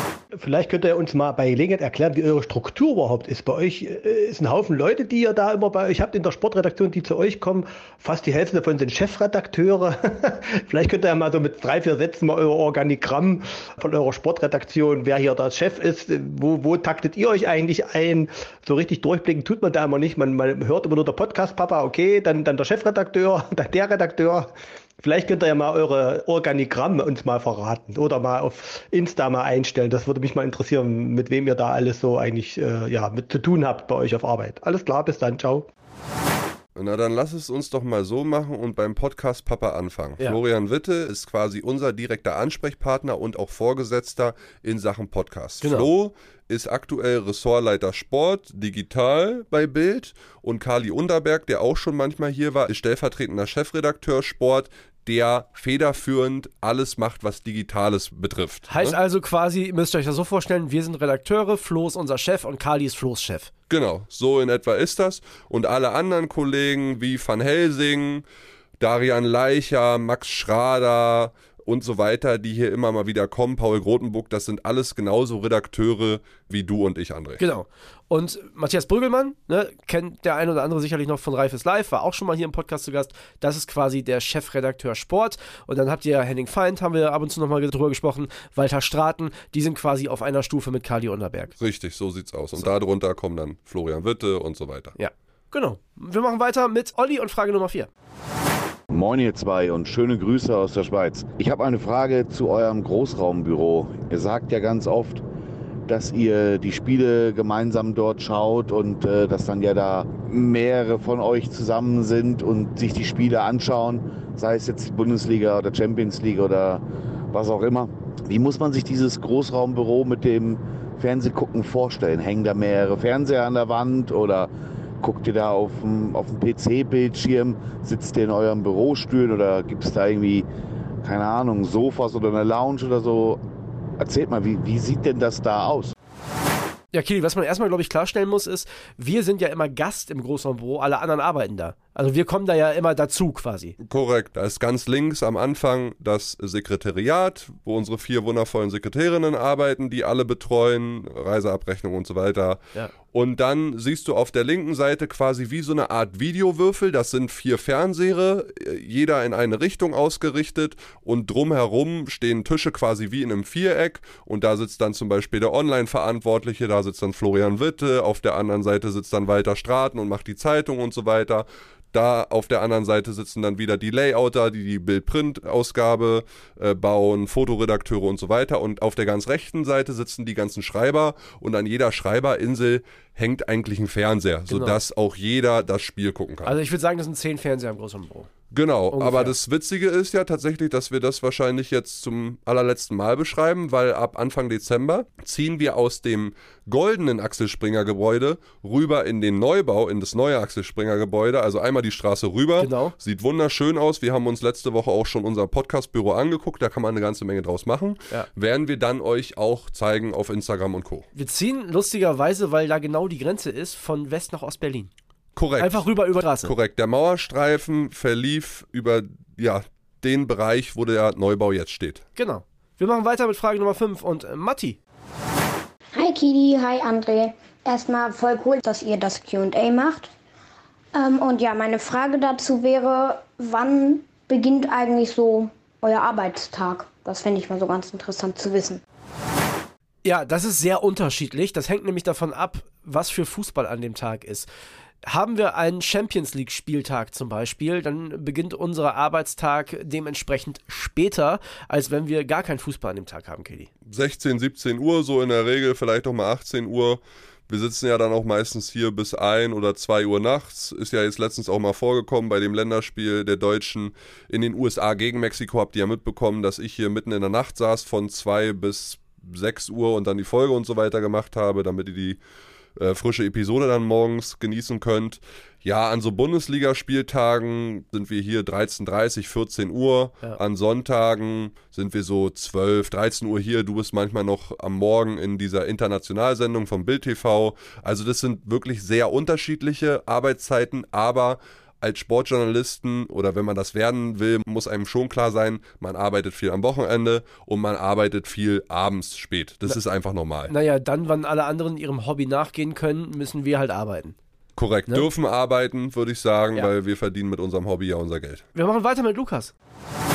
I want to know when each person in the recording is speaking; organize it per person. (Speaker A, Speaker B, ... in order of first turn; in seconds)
Speaker A: 0.3-35.7
Speaker B: 36.8-59.0, 63.7-68.2, 68.8-77.4, 91.6-95.0, 143.8-186.6, 188.5-211.1, 215.4-215.9, 216.4-222.0, 253.9-272.2, 272.8-300.5, 304.6-308.4
Speaker C: 45.6-45.9, 58.7-63.5, 77.4-91.5, 95.0-97.9, 136.9-143.8, 184.5-184.8, 186.4-188.3, 188.9-189.4, 202.6-202.9, 211.2-214.9, 215.6-216.5, 222.2-224.8, 240.0-244.5, 245.0-253.7, 300.5-304.2, 308.6-309.5
Speaker D: 98.9-105.2, 105.9-130.5, 131.0-133.4, 134.0-135.9
Speaker E: 225.9-230.1, 230.9-238.8